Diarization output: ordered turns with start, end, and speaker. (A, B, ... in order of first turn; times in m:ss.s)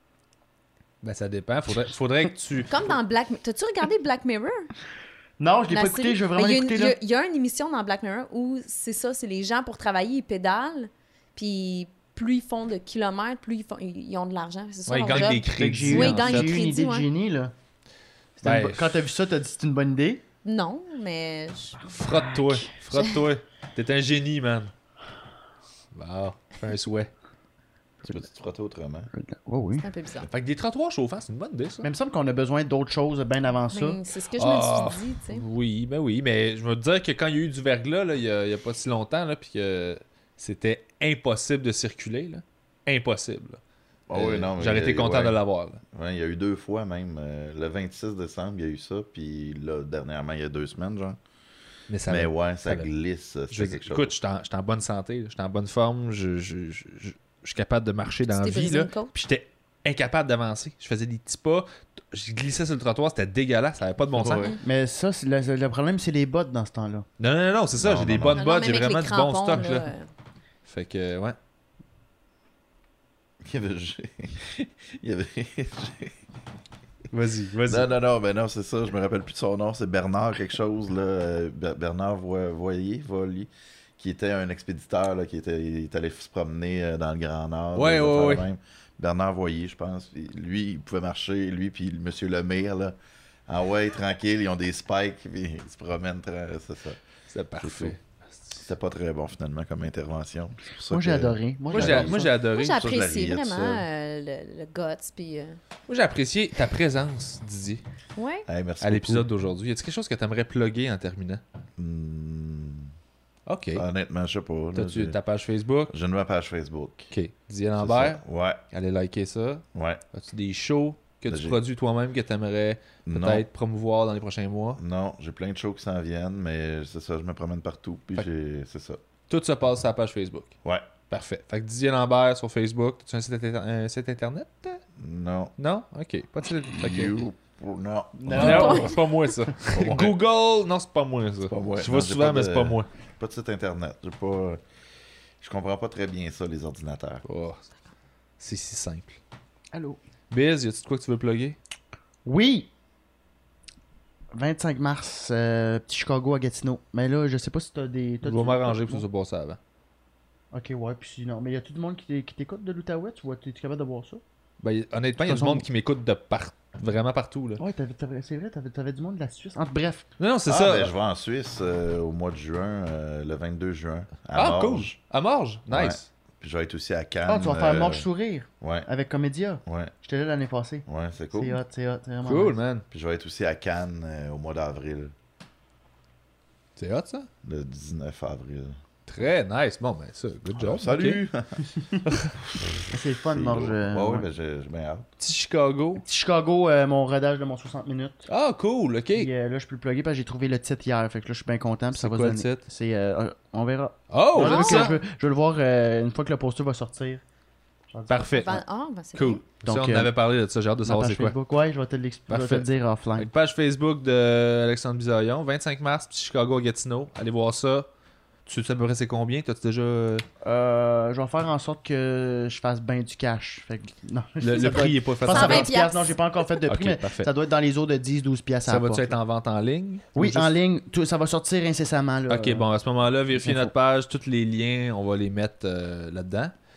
0:01.0-0:02.8 A
0:02.7-0:04.7 B
0:05.4-0:07.0 C
0:05.7-0:17.1 B
0:14.9-0:16.7 A
0:15.1-0:17.5 C
0:18.4-0:20.2 C
0:18.4-0:19.0 A
0:20.4-0:21.8 B
0:21.9-0:24.7 A
0:22.0-0:22.4 C
0:25.9-0:27.1 A
0:28.0-0:29.1 D
0:29.1-0:29.9 C
0:29.8-0:30.3 B
0:30.3-0:31.9 A
0:31.8-0:34.0 C
0:33.7-0:35.4 B
0:34.4-0:45.8 A
0:44.1-0:45.4 D
0:45.9-0:51.2 D
0:51.9-0:52.9 A
0:52.1-0:54.1 D
0:53.5-1:04.5 A
0:58.3-0:59.1 B
1:04.1-1:04.6 D
1:04.2-1:04.6 B
1:04.6-1:07.1 C
1:07.2-1:09.9 A
1:07.8-1:08.5 D
1:08.4-1:10.1 B
1:10.7-1:11.4 A
1:13.4-1:16.2 D
1:17.1-1:17.9 A
1:17.7-1:33.0 D
1:27.8-1:28.5 A
1:33.5-1:37.0 D
1:37.3-1:38.6 A
1:37.6-1:38.0 D
1:38.6-1:43.8 D
1:40.9-1:42.3 C
1:41.7-1:42.8 A
1:42.4-1:45.6 B
1:45.9-1:47.8 A
1:48.2-1:48.5 B
1:48.5-1:49.3 D
1:48.8-1:51.4 A
1:51.8-1:52.9 D
1:53.5-1:53.8 A
1:53.8-1:55.2 D
1:54.7-1:55.9 A
1:55.9-1:57.1 D
1:57.1-2:04.8 A
1:57.8-1:58.6 D
1:59.8-2:00.0 D
2:01.3-2:01.6 D
2:03.0-2:03.4 D
2:04.8-2:09.0 D
2:09.3-2:10.5 A
2:11.1-2:14.8 A
2:15.0-2:15.6 D
2:15.6-2:17.2 A
2:16.8-2:19.0 D
2:18.2-2:19.0 C
2:18.3-2:22.9 A
2:18.4-2:19.0 B
2:19.7-2:20.2 D
2:21.5-2:24.6 D
2:25.4-2:27.2 D
2:27.2-2:27.7 A
2:28.4-2:29.2 A
2:29.7-2:30.0 C
2:30.3-2:31.6 A
2:32.2-2:32.7 C
2:34.3-2:39.0 C
2:38.2-2:39.6 A
2:40.5-2:44.2 C
2:44.6-2:47.6 A
2:45.2-2:45.7 C
2:47.6-2:50.1 C
2:50.2-2:50.9 A
2:50.5-2:55.0 D
2:54.3-2:56.1 A
2:55.7-2:58.1 D
2:57.3-3:02.6 C
2:58.6-2:58.9 D
2:59.7-2:59.9 D
3:00.9-3:01.6 D
3:02.2-3:02.8 A
3:02.9-3:05.1 D
3:06.8-3:07.3 A
3:07.4-3:08.8 D
3:09.1-3:11.2 A
3:10.6-3:11.6 D
3:12.0-3:12.4 A
3:12.4-3:15.1 D
3:12.9-3:14.3 C
3:15.2-3:16.0 A
3:16.0-3:18.3 C
3:18.3-3:19.3 A
3:19.1-3:27.2 C
3:21.9-3:22.6 A
3:24.1-3:25.0 A
3:24.4-3:25.0 B
3:27.9-3:28.6 C
3:28.1-3:28.6 A
3:28.4-3:29.4 B
3:29.1-3:31.4 A
3:29.6-3:30.1 C
3:30.8-3:33.3 C
3:32.3-3:37.9 A
3:38.5-3:40.3 A
3:40.4-3:49.2 C
3:44.4-3:45.7 A
3:45.3-3:46.2 B
3:46.7-3:47.3 A
3:48.7-3:50.5 A
3:50.2-3:52.7 C
3:52.3-3:56.5 A
3:53.4-3:53.7 C